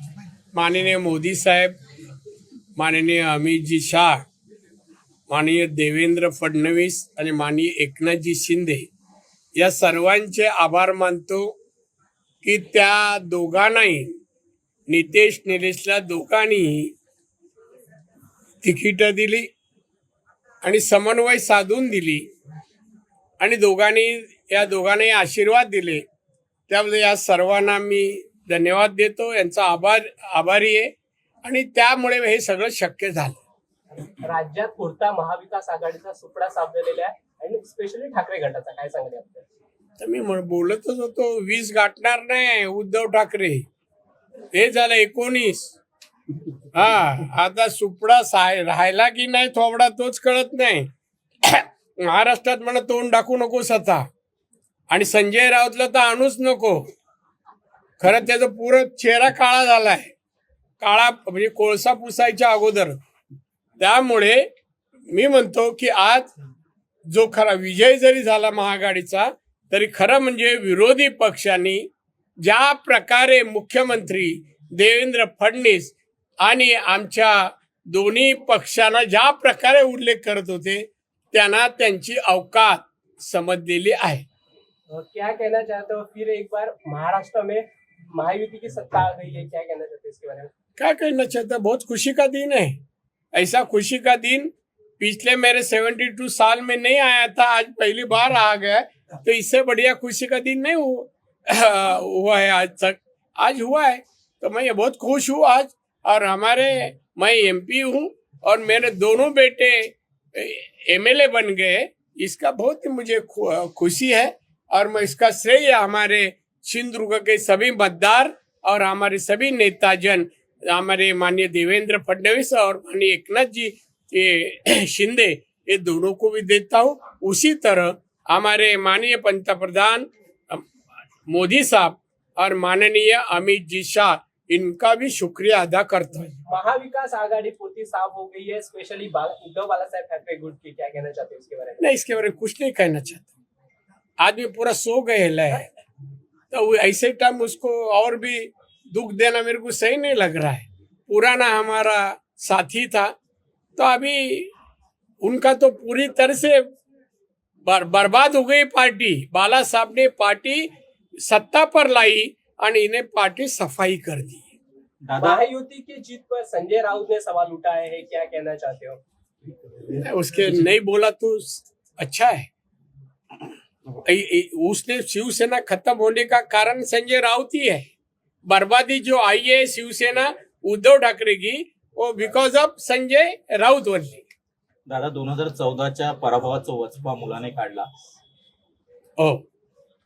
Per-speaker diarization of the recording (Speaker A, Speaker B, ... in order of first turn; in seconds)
Speaker A: 0.5-1.8, 2.8-4.2, 5.3-8.9, 9.6-11.5, 12.4-14.2, 14.9-16.9, 18.6-19.5, 20.6-22.2, 23.4-26.0, 26.7-30.9, 31.4-33.4, 40.0-43.6, 44.5-45.8, 46.7-50.9, 51.4-54.1, 54.9-56.8, 58.0-60.1, 60.8-63.0, 63.8-64.4, 65.1-66.3, 67.1-71.9, 72.4-84.2, 90.8-92.8, 93.3-130.6, 131.3-136.3, 141.8-143.3, 144.2-145.7, 146.5-153.1, 153.8-154.5, 155.2-156.6, 157.7-164.4, 170.0-172.5, 174.0-177.9, 178.5-184.2, 189.2-189.4
Speaker B: 34.2-39.5, 84.9-90.5, 136.5-141.8, 165.2-169.0
Speaker C: 165.0-165.4, 184.9-187.9